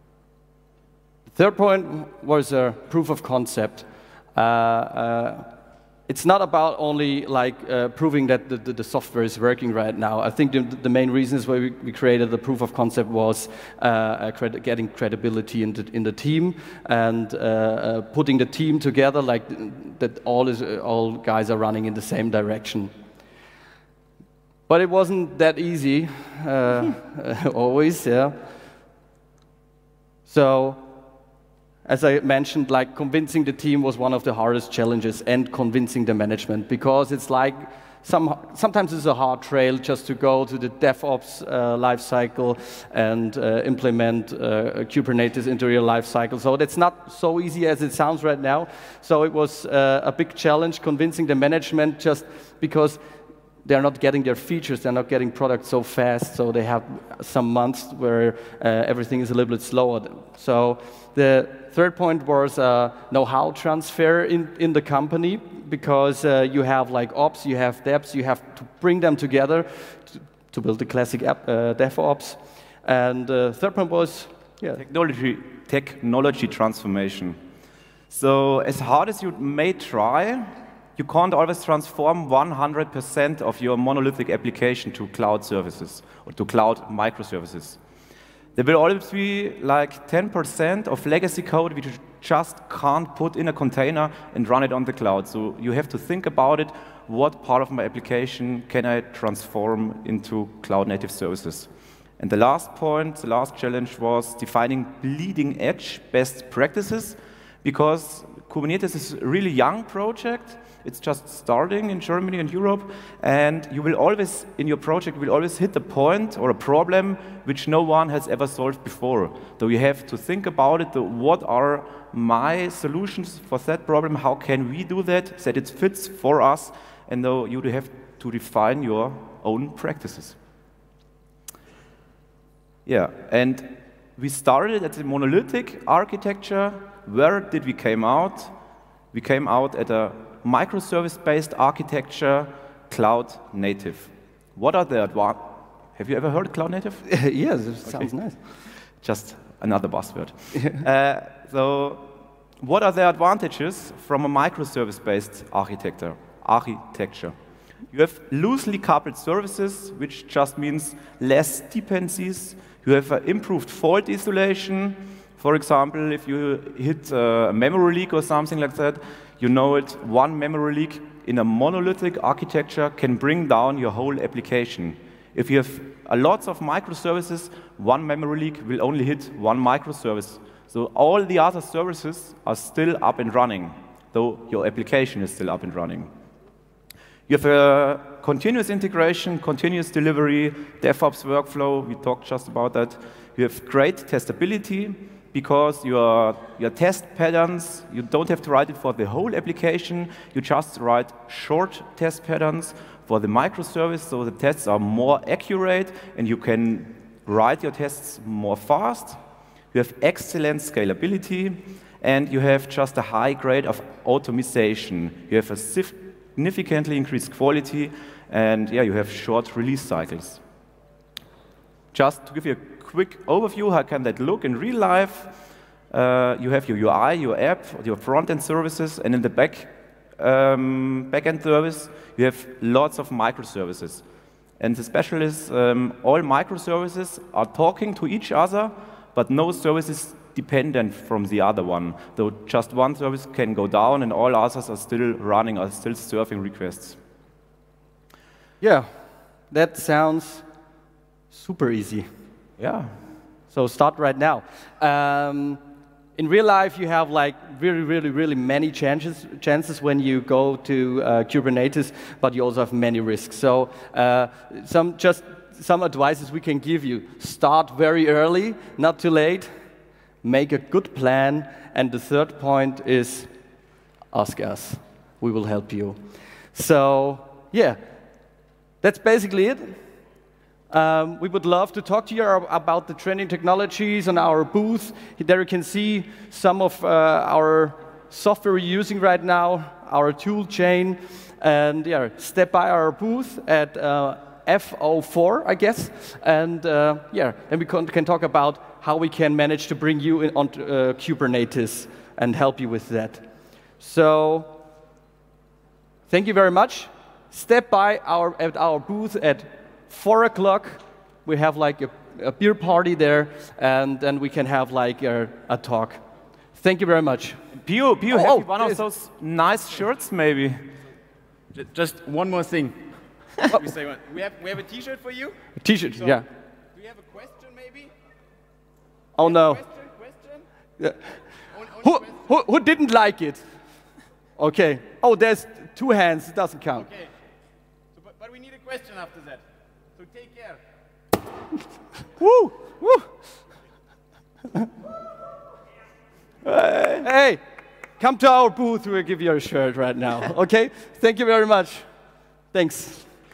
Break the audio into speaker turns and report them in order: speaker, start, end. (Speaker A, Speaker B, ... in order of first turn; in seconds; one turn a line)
Speaker A: 1.3-5.5
Speaker A: 6.1-22.9
Speaker A: 24.7-28.4
Speaker A: 30.3-30.8
Speaker A: 31.9-53.0
Speaker A: 53.6-74.8
Speaker B: 74.8-77.4
Speaker B: 78.1-87.8
Speaker B: 88.5-130.4
Speaker B: 132.9-138.5
Speaker B: 139.1-147.0
Speaker A: 147.1-148.4
Speaker B: 149.0-157.3
Speaker A: 150.5-150.8
Speaker B: 157.9-186.1
Speaker B: 187.3-209.2
Speaker B: 209.7-220.4
Speaker B: 221.9-234.0
Speaker B: 234.6-247.0
Speaker A: 248.6-248.9
Speaker A: 249.5-250.4
Speaker A: 251.3-252.1
Speaker B: 252.6-252.9
Speaker A: 253.5-255.6
Speaker A: 256.2-269.5
Speaker A: 270.2-273.3
Speaker A: 274.1-276.0
Speaker A: 276.5-277.8
Speaker A: 278.8-279.8
Speaker A: 280.7-303.3
Speaker A: 303.8-304.6
Speaker A: 306.1-316.0
Speaker A: 316.6-317.4
Speaker B: 317.5-320.8
Speaker A: 318.1-318.8
Speaker C: 321.6-322.8
Speaker C: 323.6-325.4
Speaker A: 325.6-326.3
Speaker C: 326.8-327.9
Speaker A: 329.2-329.7
Speaker A: 330.8-333.4
Speaker A: 334.4-337.0
Speaker C: 338.1-339.4
Speaker C: 340.1-340.6
Speaker A: 342.2-343.1
Speaker B: 346.5-346.9
Speaker A: 346.6-347.4
Speaker A: 348.0-351.9
Speaker A: 352.5-353.1